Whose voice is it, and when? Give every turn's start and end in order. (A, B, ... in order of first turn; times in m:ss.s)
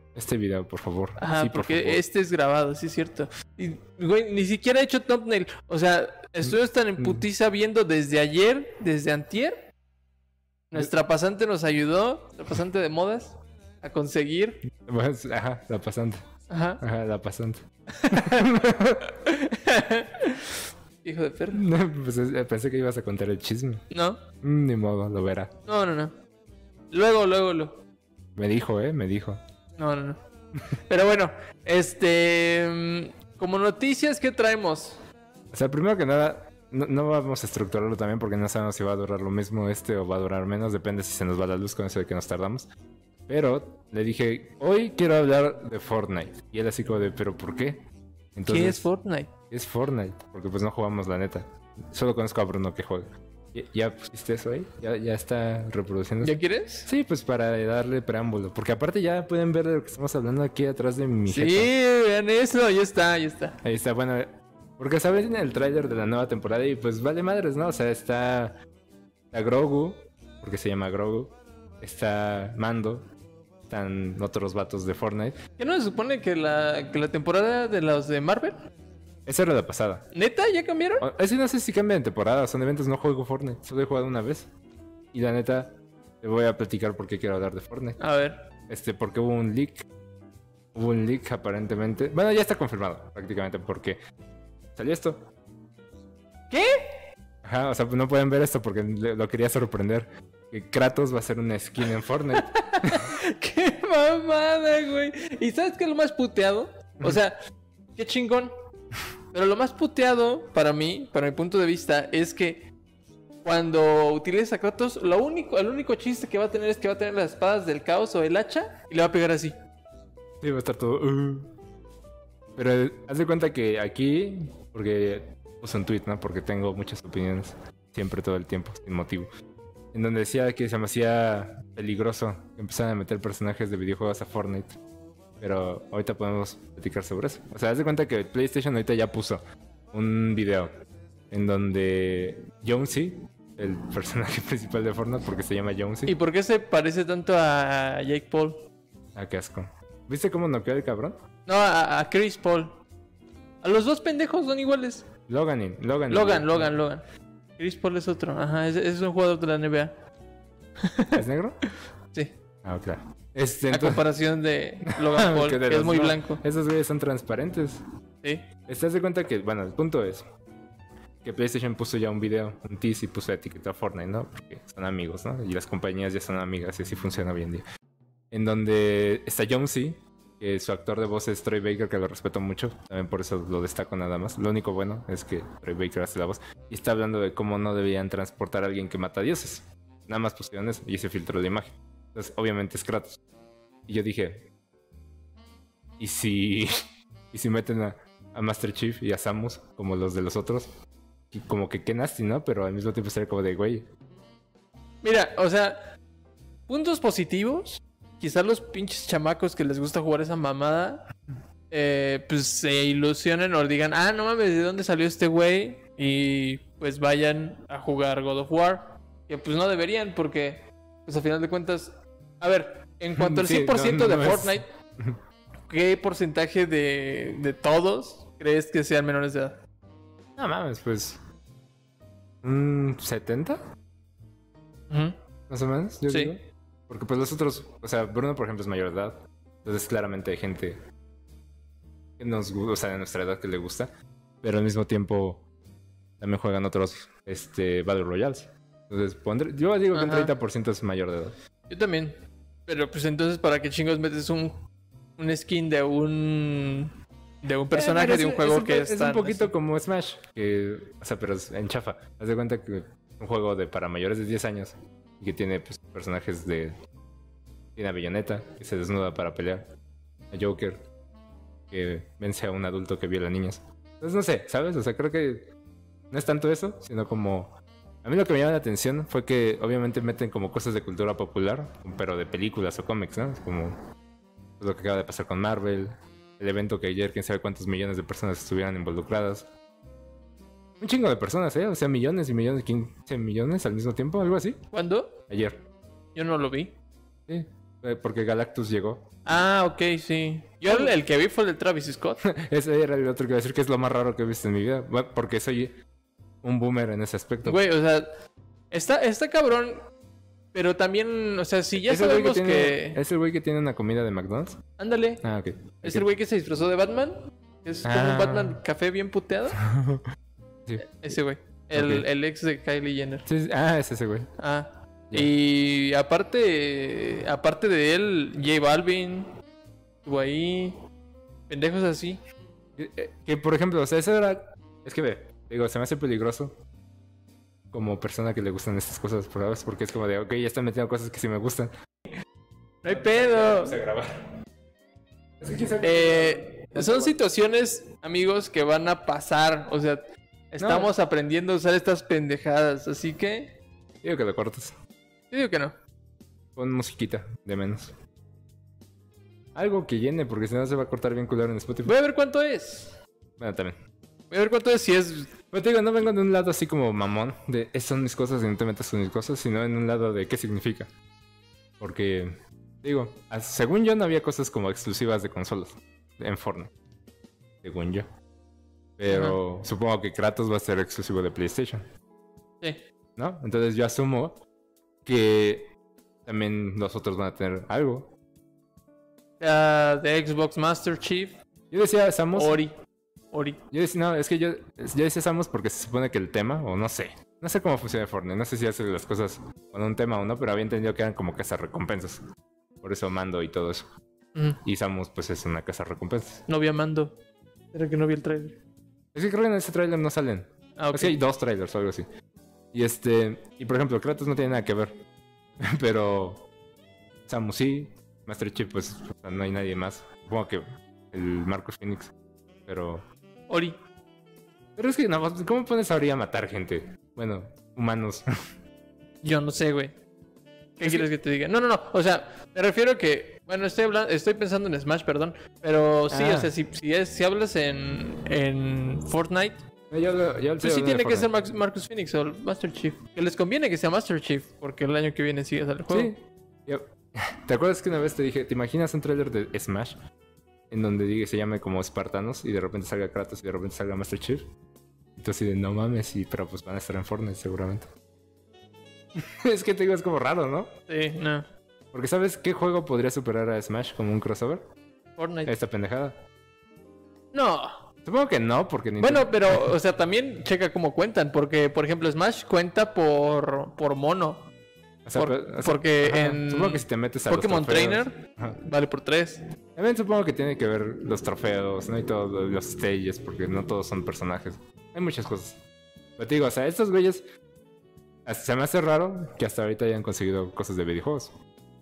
0:00.2-0:02.0 A
0:01.2-0:09.7 B
0:06.4-0:07.2 A
0:10.7-0:14.6 B
0:14.8-0:16.2 A
0:16.5-0:16.8 B
0:16.8-0:19.1 A
0:18.0-0:18.5 B
0:19.0-0:21.6 B
0:21.5-0:23.8 A
0:23.9-0:24.2 B
0:24.4-0:25.5 A
0:25.7-0:26.2 B
0:26.9-0:27.8 B
0:28.4-0:29.4 A
0:29.8-0:30.2 B
0:30.9-0:35.0 B
0:35.5-0:42.7 A
0:43.3-0:47.8 A
0:48.4-0:48.9 A
0:48.5-0:49.3 B
0:49.5-1:01.7 A
0:56.2-0:56.9 B
1:01.3-1:03.6 B
1:03.6-1:08.6 A
1:09.3-1:13.1 A
1:13.7-1:15.4 A
1:15.6-1:18.6 B
1:19.3-1:20.1 A
1:20.1-1:21.1 B
1:21.0-1:24.5 A
1:25.1-1:28.0 A
1:28.0-1:28.5 B
1:28.7-1:29.9 A
1:30.7-1:34.0 A
1:34.8-1:35.2 A
1:36.5-1:37.0 B
1:37.4-1:43.2 A
1:42.3-1:47.4 B
1:48.0-1:48.5 B
1:49.3-1:52.7 B
1:53.4-1:59.6 B
2:00.4-2:01.5 A
2:02.6-2:09.3 A
2:09.9-2:14.8 A
2:15.4-2:20.7 A
2:21.3-2:26.1 A
2:26.1-2:28.6 B
2:29.2-2:31.2 A
2:31.5-2:32.8 B
2:33.6-2:35.1 B
2:35.3-2:36.7 A
2:36.1-2:37.0 B
2:37.6-2:40.0 B
2:40.8-2:41.2 B
2:41.1-2:41.6 A
2:42.6-2:44.0 A
2:43.7-2:46.4 B
2:44.9-2:47.8 A
2:48.7-2:50.2 A
2:51.2-2:57.6 A
2:58.3-3:13.2 A
3:13.9-3:14.5 A
3:16.0-3:16.7 A
3:17.3-3:20.7 A
3:21.3-3:23.9 A
3:25.0-3:25.8 B
3:26.7-3:31.1 B
3:31.7-3:44.7 B
3:43.2-3:45.2 A
3:45.7-3:49.6 B
3:50.4-3:51.2 A
3:52.4-3:53.6 A
3:54.9-3:55.2 B
3:55.5-4:00.8 A
3:56.1-3:56.3 B
4:02.2-4:03.9 A
4:04.4-4:05.4 A
4:06.2-4:11.4 A
4:09.9-4:10.3 B
4:11.7-4:14.6 B
4:15.2-4:19.5 B
4:17.7-4:26.7 A
4:27.8-4:29.7 A
4:30.3-4:30.9 A
4:31.7-4:35.5 A
4:36.1-4:43.8 A
4:44.6-4:49.5 A
4:50.8-4:54.6 A
4:54.7-4:55.2 B
4:55.3-4:55.6 A
4:56.2-4:56.8 B
4:57.3-4:59.1 A
4:59.3-5:02.2 B
5:00.7-5:01.0 A
5:02.2-5:05.8 A
5:06.4-5:07.6 A
5:07.4-5:08.1 B
5:08.7-5:09.9 B
5:10.5-5:13.0 B
5:11.8-5:14.6 A
5:14.8-5:15.2 B
5:15.2-5:16.1 A
5:15.8-5:19.6 B
5:17.8-5:18.6 A
5:19.6-5:20.1 A
5:20.7-5:21.2 A
5:20.8-5:23.3 B
5:21.7-5:22.1 A
5:23.3-5:24.3 A
5:24.4-5:29.3 B
5:30.0-5:30.8 B
5:31.5-5:32.2 B
5:32.8-5:36.6 A
5:37.7-5:41.7 A
5:42.8-5:43.8 B
5:42.9-5:44.3 A
5:45.4-5:47.2 A
5:45.8-5:53.6 B
5:50.6-5:50.9 A
5:54.0-5:54.7 A
5:55.3-5:55.7 B
5:56.6-5:57.9 A
5:59.6-6:01.9 A
6:01.9-6:03.0 B
6:03.4-6:03.8 A
6:04.3-6:05.4 B
6:05.5-6:10.9 A
6:11.8-6:16.7 A
6:17.6-6:18.1 A
6:19.0-6:21.8 A
6:19.1-6:19.4 B
6:23.2-6:24.4 A
6:25.1-6:25.7 A
6:26.3-6:28.1 A
6:29.4-6:31.4 B
6:31.7-6:32.6 A
6:32.3-6:32.7 B
6:33.3-6:33.6 B
6:33.7-6:42.2 A
6:42.8-6:43.9 A
6:44.4-6:44.6 B
6:44.6-6:46.4 A
6:46.5-6:47.2 B
6:47.7-6:48.6 B
6:49.1-6:52.1 A
6:50.8-6:51.2 B
6:52.7-6:55.0 A
6:55.6-6:56.5 A
6:57.3-7:02.1 A
7:02.7-7:03.0 A
7:03.5-7:03.8 B
7:04.8-7:08.3 A
7:09.2-7:10.0 B
7:10.8-7:19.6 B
7:10.8-7:11.1 A
7:16.1-7:16.5 A
7:19.9-7:21.3 A
7:20.6-7:26.1 B
7:25.9-7:30.0 A
7:30.7-7:34.5 A
7:35.2-7:37.9 A
7:39.2-7:40.7 A
7:40.9-7:41.5 B
7:41.9-7:44.7 A
7:45.2-7:45.5 B
7:45.5-7:46.2 A
7:47.3-7:47.8 B
7:48.0-7:49.7 A
7:49.0-7:54.5 B
7:55.0-7:58.6 A
7:55.2-7:59.4 B
7:59.8-8:05.6 A
8:06.2-8:07.2 A
8:08.3-8:11.3 A